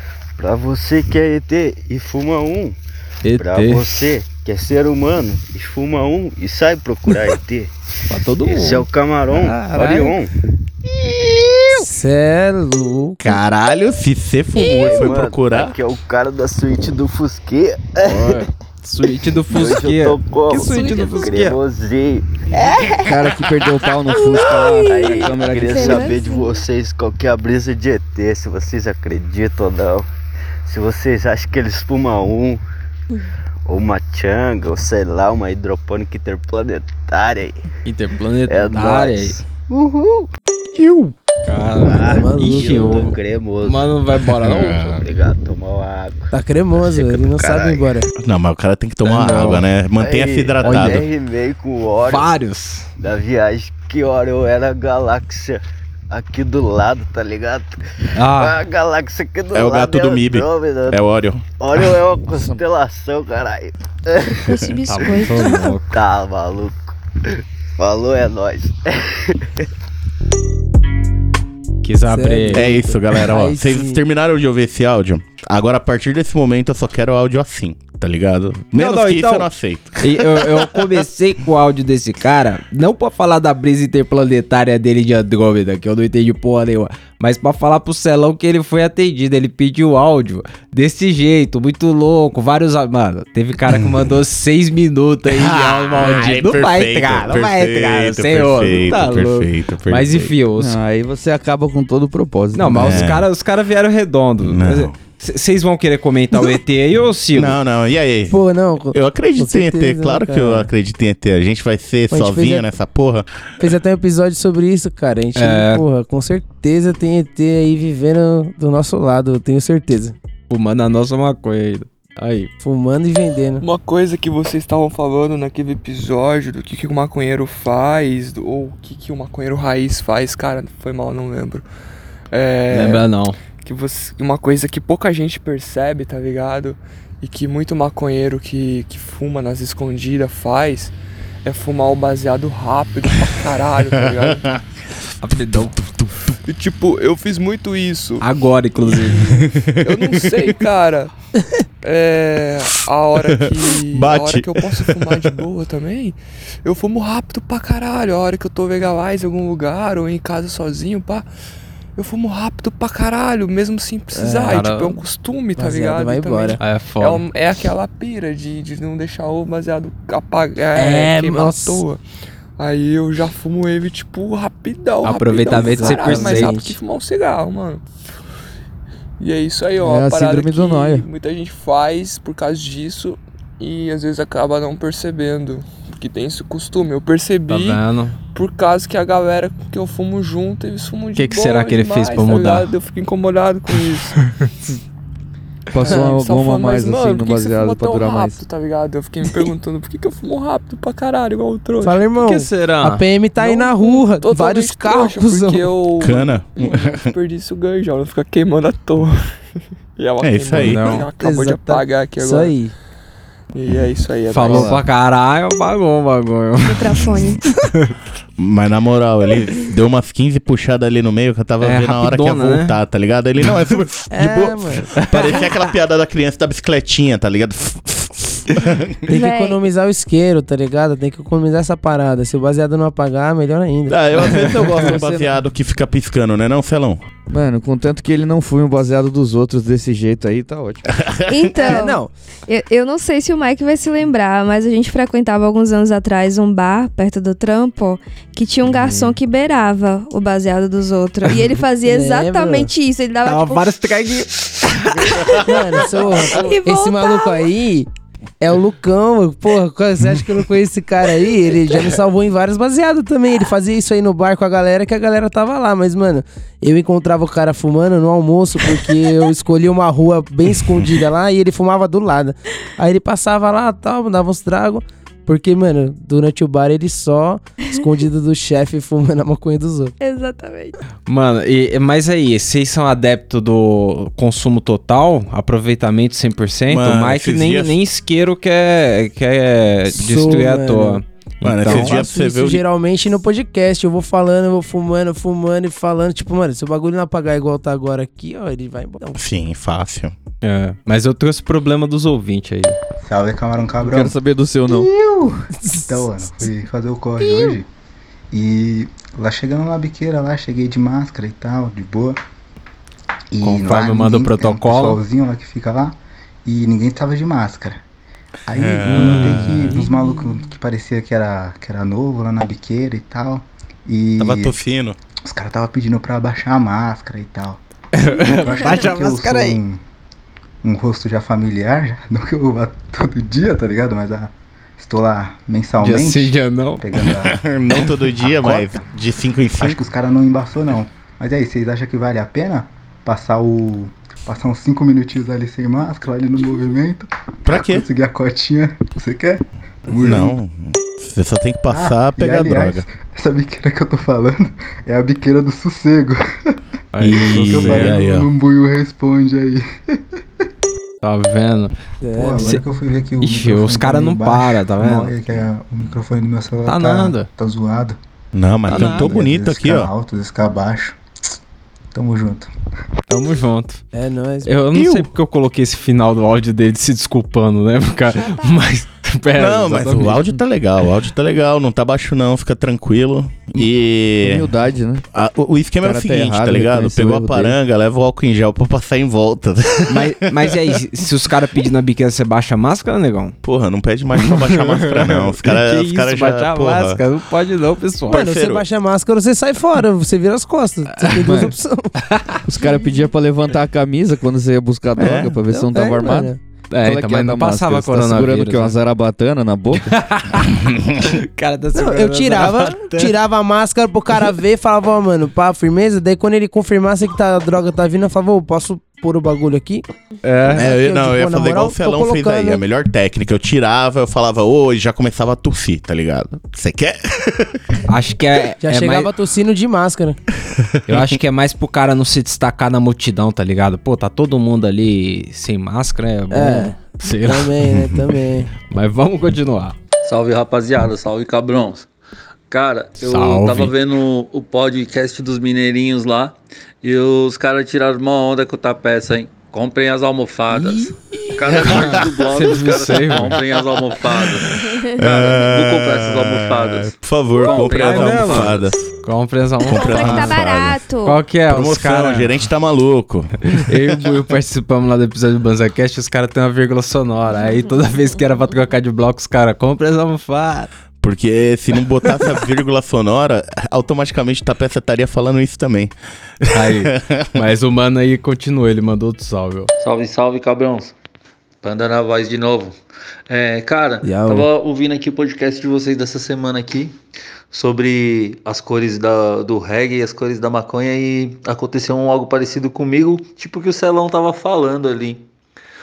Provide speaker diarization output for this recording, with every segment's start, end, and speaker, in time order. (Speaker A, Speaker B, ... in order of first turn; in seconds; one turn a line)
Speaker A: 0.4-2.8
Speaker B: 3.2-3.9
Speaker A: 3.4-7.8
Speaker B: 8.1-8.9
Speaker A: 8.4-10.3
Speaker B: 9.4-10.1
Speaker C: 9.7-10.0
Speaker A: 11.0-11.8
Speaker C: 11.7-13.3
Speaker D: 13.2-15.8
Speaker E: 14.6-15.2
Speaker A: 14.8-18.4
Speaker B: 18.1-21.6
Speaker A: 19.5-22.3
Speaker E: 20.7-21.3
Speaker F: 23.0-26.0
Speaker E: 24.1-26.6
Speaker A: 24.7-30.1
Speaker A: 30.7-32.6
Speaker A: 33.7-37.6
Speaker B: 37.9-39.4
Speaker A: 38.5-40.2
Speaker B: 41.5-45.0
Speaker A: 41.7-47.9
Speaker C: 42.0-42.9
Speaker C: 46.3-48.1
Speaker D: 48.2-51.0
Speaker B: 49.1-49.6
Speaker A: 50.0-52.3
Speaker B: 50.6-51.1
Speaker B: 52.1-52.9
Speaker A: 53.0-61.0
Speaker B: 58.2-58.5
Speaker D: 59.5-61.5
Speaker A: 61.6-65.3
Speaker E: 64.5-65.7
Speaker B: 64.9-66.0
Speaker A: 65.8-67.0
Speaker A: 67.8-69.4
Speaker B: 71.8-72.7
Speaker C: 72.1-74.0
Speaker D: 72.5-80.8
Speaker B: 78.8-79.5
Speaker B: 80.0-100.7
Speaker D: 93.7-94.2
Speaker D: 95.3-100.3
Speaker F: 100.6-103.1
Speaker B: 102.5-107.6
Speaker D: 102.7-103.3
Speaker D: 104.4-105.0
Speaker D: 107.3-108.4
Speaker C: 108.3-110.7
Speaker D: 108.9-113.3
Speaker C: 112.1-112.7
Speaker C: 113.6-120.2
Speaker B: 115.4-115.8
Speaker B: 120.5-122.5
Speaker C: 122.6-123.6
Speaker G: 123.6-131.7
Speaker G: 132.3-133.1
Speaker B: 132.7-133.4
Speaker G: 133.6-140.9
Speaker G: 141.4-144.5
Speaker D: 143.9-144.6
Speaker B: 145.2-145.7
Speaker D: 145.3-146.3
Speaker G: 146.5-148.3
Speaker B: 148.2-149.4
Speaker D: 149.0-150.3
Speaker G: 149.8-151.1
Speaker G: 151.8-161.3
Speaker D: 153.2-155.3
Speaker G: 162.0-172.0
Speaker C: 164.1-164.7
Speaker B: 164.5-165.0
Speaker C: 165.6-166.6
Speaker B: 166.6-167.2
Speaker C: 170.8-171.8
Speaker G: 172.6-177.8
Speaker B: 175.0-176.6
Speaker C: 175.5-176.7
Speaker G: 179.2-187.8
Speaker F: 179.8-181.1
Speaker B: 187.5-188.2
Speaker G: 188.3-194.2
Speaker B: 191.2-192.7
Speaker F: 195.7-198.4
Speaker G: 195.8-202.1
Speaker C: 195.8-196.1
Speaker C: 201.8-205.6
Speaker B: 202.2-203.0
Speaker G: 203.4-209.2
Speaker D: 206.0-207.1
Speaker G: 210.0-212.6
Speaker D: 210.2-210.9
Speaker B: 210.5-211.1
Speaker C: 211.2-212.7
Speaker G: 213.5-214.8
Speaker B: 214.3-217.3
Speaker F: 214.4-214.8
Speaker E: 216.7-217.4
Speaker D: 218.4-229.0
Speaker B: 221.6-222.8
Speaker C: 224.1-224.9
Speaker B: 225.0-225.5
Speaker C: 229.1-234.0
Speaker E: 229.2-229.6
Speaker D: 233.9-237.1
Speaker F: 234.3-235.4
Speaker F: 237.3-240.9
Speaker D: 240.9-241.8
Speaker E: 241.3-253.7
Speaker C: 241.6-242.1
Speaker C: 251.8-252.7
Speaker B: 253.2-255.4
Speaker C: 255.4-257.9
Speaker E: 256.3-257.3
Speaker C: 258.4-279.9
Speaker E: 280.0-280.8
Speaker B: 281.1-292.1
Speaker D: 286.7-287.8
Speaker C: 289.9-291.0
Speaker D: 291.4-292.6
Speaker C: 291.6-299.2
Speaker D: 299.2-300.1
Speaker B: 300.4-302.8
Speaker H: 303.0-304.2
Speaker F: 303.8-304.9
Speaker H: 304.7-307.7
Speaker C: 305.6-305.9
Speaker H: 308.3-312.2
Speaker H: 313.3-317.8
Speaker B: 313.4-315.0
Speaker H: 318.5-324.6
Speaker D: 318.6-319.8
Speaker B: 318.9-319.8
Speaker D: 324.2-325.0
Speaker H: 325.3-329.8
Speaker B: 327.9-329.6
Speaker H: 330.6-337.4
Speaker B: 335.8-336.8
Speaker D: 337.2-339.8
Speaker H: 338.1-338.9
Speaker H: 339.6-350.4
Speaker D: 347.5-347.8
Speaker D: 350.0-352.9
Speaker H: 351.7-356.2
Speaker B: 356.9-358.1
Speaker D: 357.0-358.2
Speaker H: 357.1-359.6
Speaker B: 361.0-361.7
Speaker C: 362.0-362.6
Speaker H: 362.2-368.0
Speaker B: 363.2-365.1
Speaker B: 366.7-367.3
Speaker D: 368.4-369.9
Speaker H: 368.7-371.0
Speaker B: 368.7-369.2
Speaker H: 371.9-372.5
Speaker B: 373.1-373.8
Speaker C: 373.9-374.5
Speaker B: 374.4-380.4
Speaker D: 374.8-375.1
Speaker E: 378.2-378.7
Speaker D: 379.4-384.5
Speaker F: 384.2-385.0
Speaker D: 385.1-390.1
Speaker F: 385.8-387.6
Speaker B: 389.9-393.4
Speaker D: 393.4-397.0
Speaker B: 394.2-398.3
Speaker D: 398.1-398.6
Speaker C: 398.1-401.9
Speaker F: 401.2-401.5
Speaker F: 402.5-406.3
Speaker E: 402.7-403.0
Speaker D: 405.0-405.4
Speaker C: 405.5-406.4
Speaker B: 406.7-408.8
Speaker F: 406.8-410.0
Speaker B: 409.8-413.2
Speaker D: 410.6-410.9
Speaker C: 411.8-419.8
Speaker B: 420.2-420.7
Speaker C: 420.4-422.6
Speaker D: 420.5-427.6
Speaker B: 427.9-429.1
Speaker C: 428.6-430.2
Speaker D: 430.6-431.0
Speaker B: 430.9-437.6
Speaker C: 436.3-438.5
Speaker D: 437.8-438.0
Speaker B: 438.7-439.8
Speaker I: 440.0-441.9
Speaker I: 442.5-458.6
Speaker B: 443.0-443.7
Speaker C: 450.5-450.9
Speaker B: 451.5-453.4
Speaker D: 455.0-458.8
Speaker B: 457.8-460.4
Speaker D: 459.6-460.9
Speaker E: 459.7-461.2
Speaker B: 461.0-462.4
Speaker D: 461.5-463.6
Speaker B: 463.5-470.7
Speaker E: 467.4-467.7
Speaker D: 471.0-475.9
Speaker B: 476.5-479.7
Speaker D: 476.5-477.3
Speaker I: 479.8-480.9
Speaker I: 481.6-482.8
Speaker I: 483.3-486.9
Speaker C: 484.0-484.5
Speaker I: 487.5-495.2